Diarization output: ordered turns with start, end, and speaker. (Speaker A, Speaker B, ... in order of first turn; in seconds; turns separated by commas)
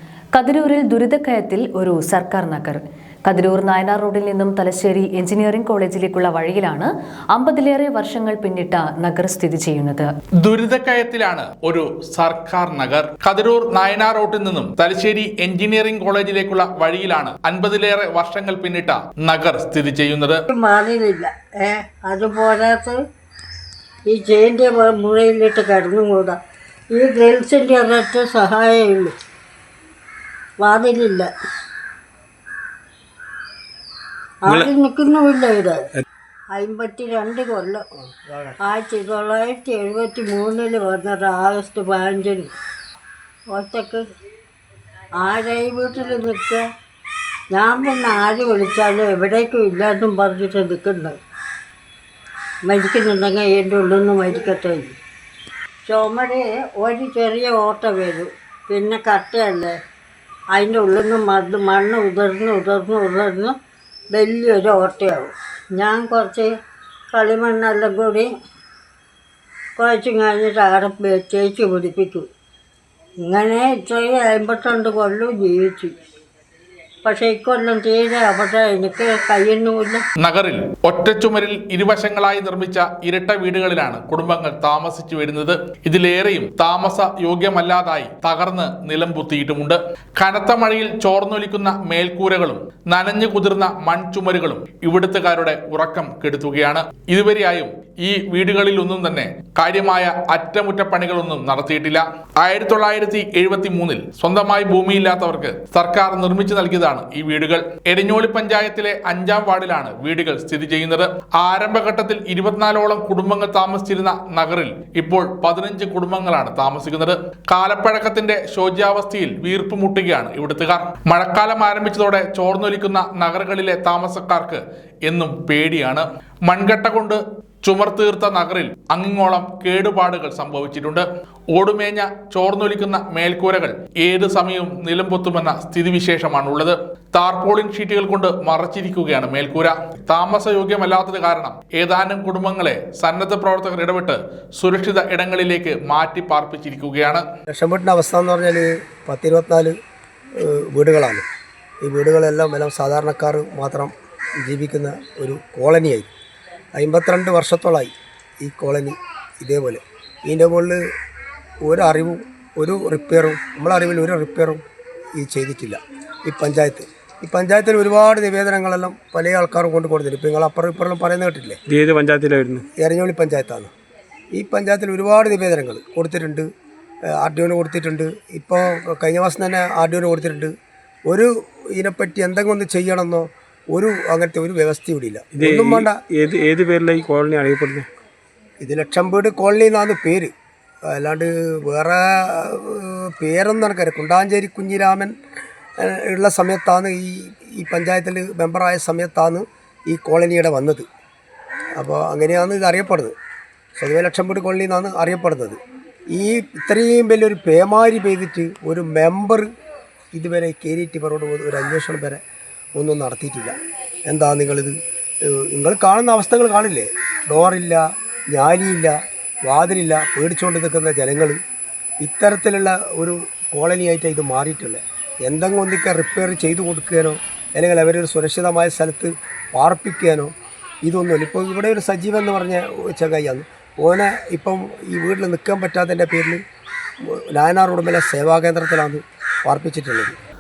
Speaker A: 0.3-10.1, Speaker B: 10.4-20.4, Speaker C: 20.5-23.0, Speaker C: 24.1-26.4, Speaker C: 26.9-29.1, Speaker C: 30.6-31.3, Speaker C: 34.4-35.8, Speaker C: 36.5-37.8, Speaker D: 38.1-38.6, Speaker C: 38.6-42.5, Speaker C: 43.5-44.1, Speaker C: 45.2-46.6, Speaker C: 47.5-51.1, Speaker C: 52.6-55.0, Speaker C: 55.9-59.8, Speaker C: 60.5-63.5, Speaker C: 64.1-66.5, Speaker C: 67.1-68.3, Speaker C: 69.8-72.3, Speaker C: 73.2-75.9, Speaker C: 77.0-80.0, Speaker B: 80.2-147.2, Speaker D: 147.5-149.8, Speaker D: 150.4-151.2, Speaker D: 151.8-153.9, Speaker D: 154.4-156.1, Speaker D: 156.8-160.8, Speaker D: 161.6-164.6, Speaker D: 165.2-171.6, Speaker E: 171.7-172.7, Speaker D: 172.8-173.7, Speaker D: 174.3-176.5, Speaker D: 177.1-180.5, Speaker D: 181.1-186.0, Speaker E: 185.3-187.9, Speaker D: 188.6-190.3, Speaker D: 190.9-195.2, Speaker D: 195.8-200.9, Speaker D: 201.8-203.1, Speaker D: 203.8-205.6, Speaker D: 206.1-209.5, Speaker D: 210.1-212.2, Speaker D: 212.8-221.4, Speaker D: 222.0-230.3, Speaker D: 230.8-236.4, Speaker D: 237.1-240.2